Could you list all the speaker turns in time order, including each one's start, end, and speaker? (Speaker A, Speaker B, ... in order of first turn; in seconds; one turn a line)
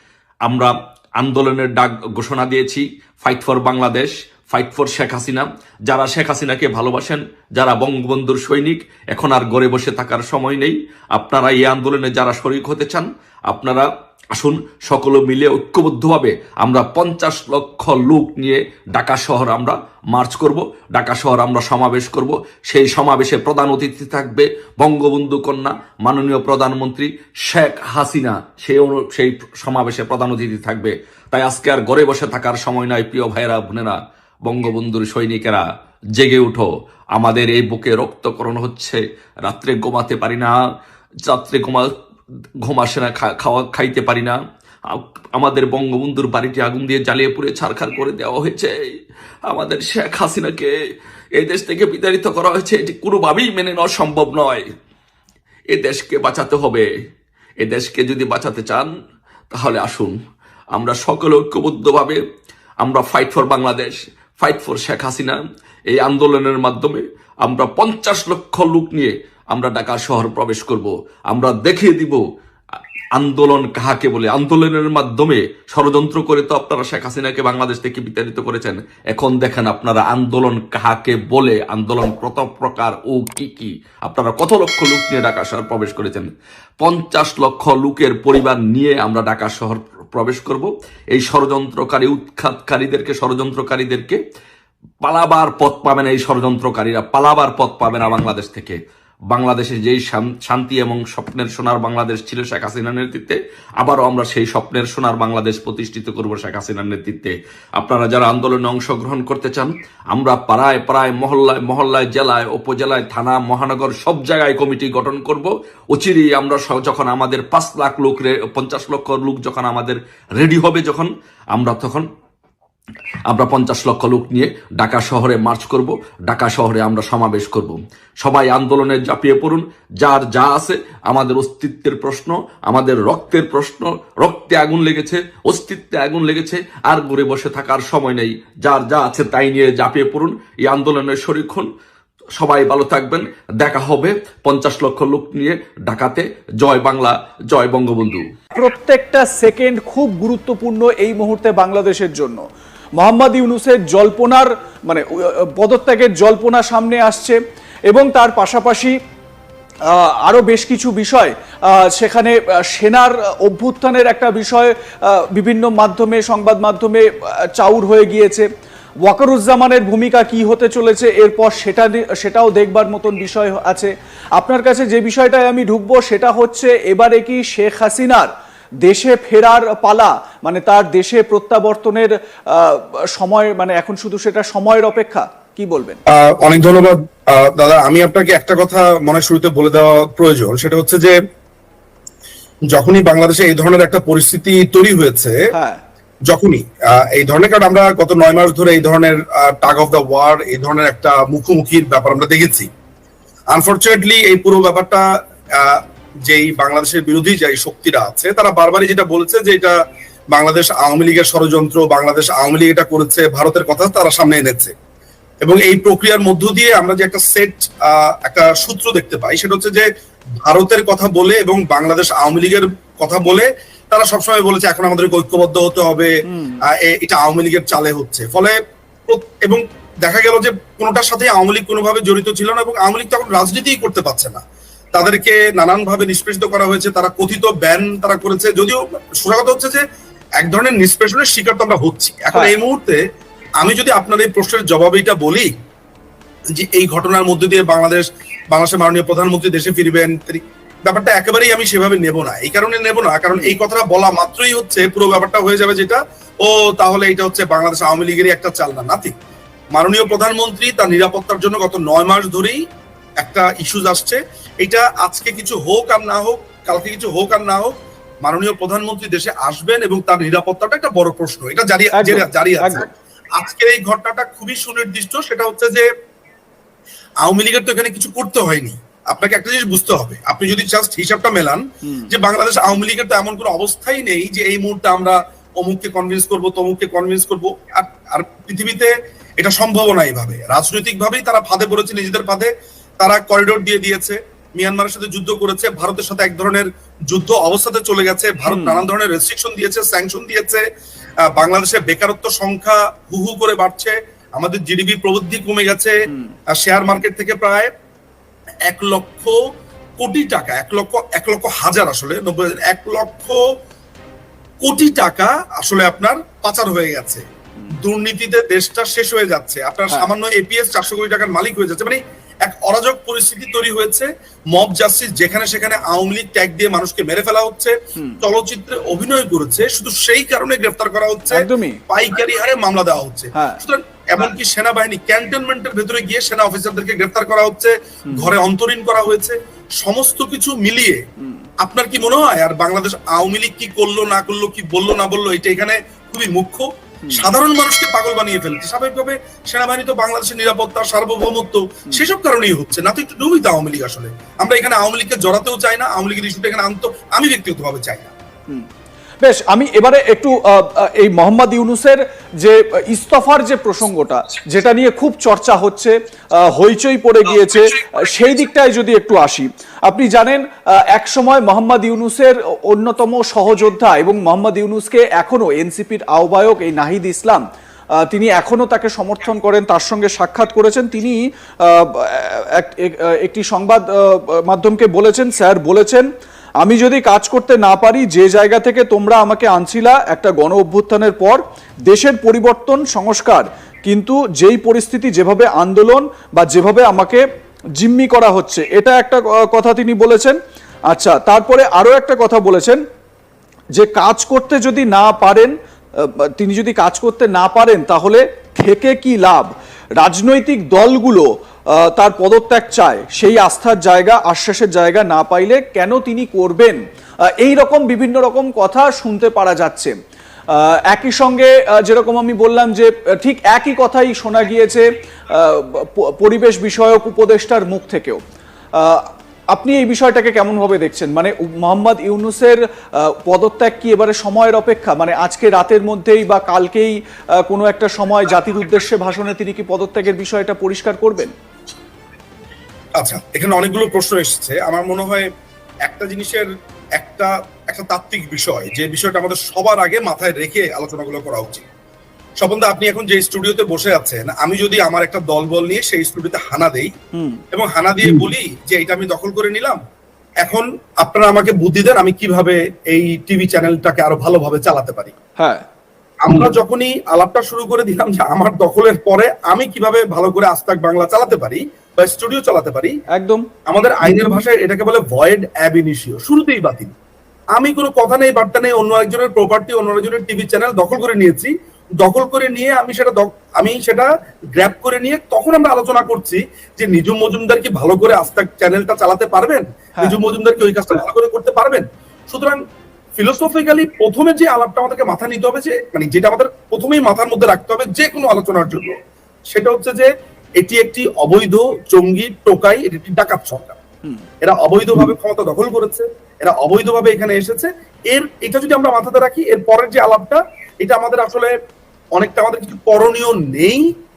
Speaker A: 0.5-35.6
Speaker A: 36.2-40.5
Speaker A: 41.3-41.9
Speaker A: 42.6-44.4
Speaker A: 44.9-48.7
Speaker A: 49.5-50.7
Speaker A: 51.4-54.6
Speaker A: 55.7-56.9
Speaker A: 57.6-58.9
Speaker A: 59.5-60.1
Speaker A: 60.8-62.2
Speaker A: 62.8-72.2
Speaker A: 73.2-86.3
Speaker A: 86.8-94.2
Speaker A: 95.0-98.8
Speaker A: 99.3-122.1
Speaker A: 123.3-141.7
Speaker A: 142.4-148.2
Speaker B: 148.5-152.4
Speaker B: 153.0-158.9
Speaker B: 159.9-167.1
Speaker B: 167.6-168.5
Speaker B: 169.0-178.3
Speaker B: 178.8-186.0
Speaker C: 186.1-191.2
Speaker C: 192.7-195.4
Speaker B: 195.5-195.8
Speaker C: 196.3-202.7
Speaker C: 203.5-205.0
Speaker C: 205.6-209.8
Speaker C: 210.3-214.7
Speaker C: 215.4-219.9
Speaker C: 220.4-226.1
Speaker B: 226.3-226.6
Speaker C: 226.7-228.6
Speaker C: 229.1-239.8
Speaker C: 240.4-243.0
Speaker C: 243.6-245.5
Speaker C: 246.5-259.1
Speaker C: 259.7-262.6
Speaker C: 263.2-275.9
Speaker B: 271.9-272.9
Speaker C: 277.2-292.5
Speaker C: 293.0-300.6
Speaker B: 298.5-298.9
Speaker C: 301.3-305.9
Speaker C: 306.5-307.7
Speaker C: 308.7-309.4
Speaker C: 310.0-313.4
Speaker C: 314.6-317.2
Speaker C: 317.8-341.0
Speaker B: 331.3-331.8
Speaker B: 341.2-341.5
Speaker C: 341.6-358.1
Speaker B: 359.2-377.4
Speaker B: 378.0-386.1
Speaker B: 386.6-397.2
Speaker B: 397.8-400.4
Speaker B: 400.9-402.8
Speaker B: 403.8-405.5
Speaker B: 406.4-411.3
Speaker B: 411.8-416.8
Speaker B: 417.4-419.9
Speaker B: 420.6-428.2
Speaker B: 428.8-441.3
Speaker C: 443.0-445.3
Speaker C: 445.9-451.7
Speaker C: 452.4-456.9
Speaker B: 457.1-457.4
Speaker C: 457.5-459.8
Speaker C: 460.4-465.1
Speaker C: 466.2-473.0
Speaker B: 473.1-473.4
Speaker C: 473.7-476.9
Speaker C: 477.6-492.6
Speaker C: 493.2-499.0
Speaker C: 499.5-503.8
Speaker C: 504.4-511.5
Speaker C: 512.1-513.9